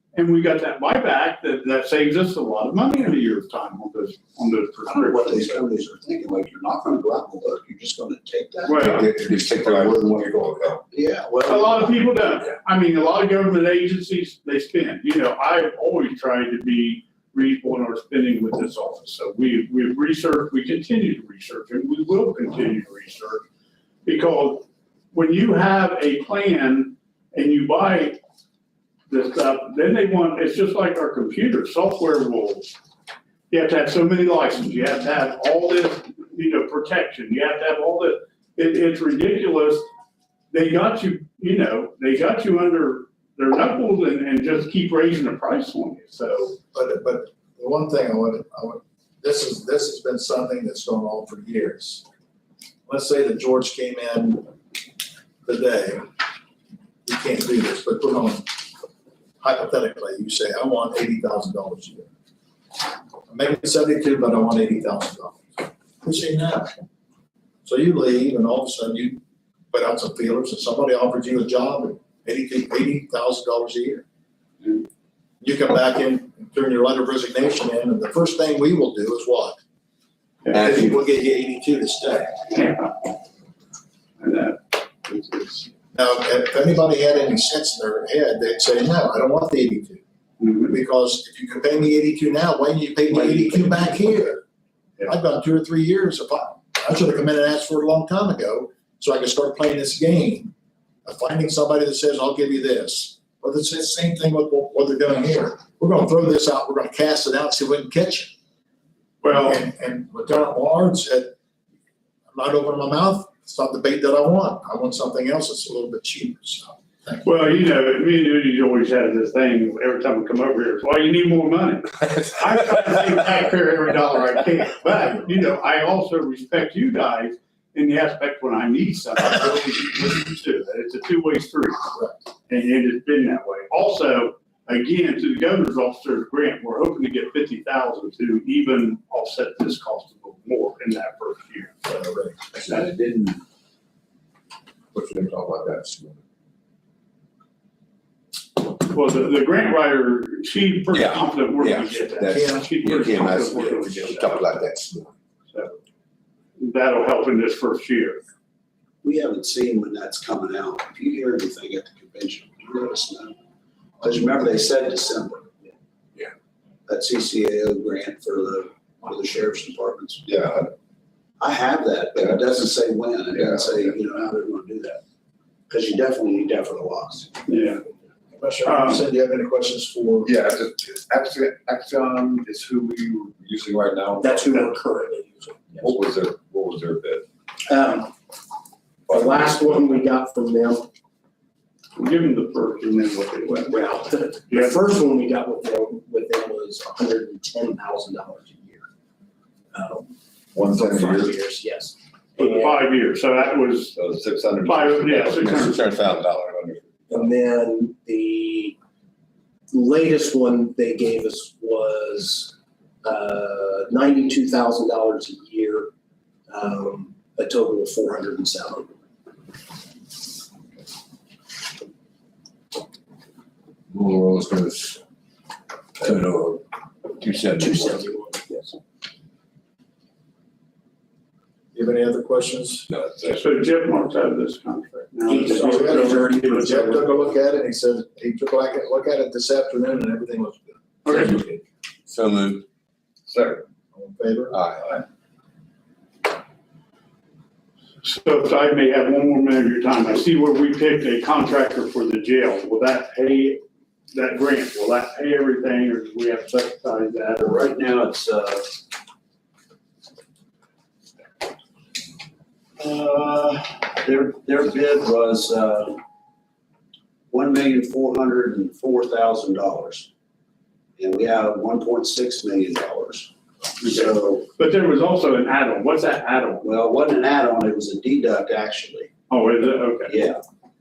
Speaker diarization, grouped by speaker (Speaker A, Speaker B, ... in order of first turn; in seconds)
Speaker A: 0.1-5.5, 8.6-9.1, 11.5-23.4, 24.0-28.2, 29.1-32.7, 33.5-39.9, 40.5-46.6, 80.5-80.9, 82.5-83.1, 84.2-85.6, 90.4-90.7, 109.2-109.6, 117.2-131.9, 132.5-141.8, 148.6-154.5, 156.6-158.2, 177.5-177.8, 178.6-179.0, 191.9-193.9, 194.5-194.8, 202.4-203.9, 204.6-205.9, 233.2-236.4, 241.0-241.4, 248.0-253.6, 254.1-257.6, 273.8-276.6, 279.3-280.1
Speaker B: 4.9-9.9, 10.9-12.1, 159.0-163.3, 164.0-165.5, 166.9-170.2, 171.4-175.0, 175.7-177.4, 257.4-258.8, 262.8-266.0, 267.3-270.1, 271.0-274.5, 276.6-279.1, 280.1-280.4
Speaker C: 8.8-10.8, 142.7-143.3, 144.9-146.2, 150.9-155.1, 170.2-170.7, 172.2-172.6, 173.3-173.9, 180.2-184.7, 185.8-187.2, 189.1-189.8, 200.5-201.4, 203.9-207.3, 223.9-225.0, 226.0-226.6, 227.2-228.0, 232.9-233.4, 242.1-242.7, 243.3-243.6, 244.5-245.0
Speaker D: 46.7-52.0, 52.9-54.5, 55.5-56.0, 57.1-58.5, 59.4-62.1, 63.3-66.7, 67.6-74.0, 75.4-79.6, 80.5-82.5, 85.9-90.0, 90.6-94.4, 95.0-100.5, 101.0-108.3, 109.3-111.4, 112.3-117.3, 141.8-142.5, 152.2-152.7, 178.3-180.3, 231.7-232.9, 235.5-241.3, 243.9-244.7
Speaker E: 184.2-185.9, 187.7-188.1, 189.1-190.9, 193.7-198.9, 199.7-202.8, 207.1-208.8, 209.7-215.9, 216.5-218.9, 227.5-228.7, 235.3-237.0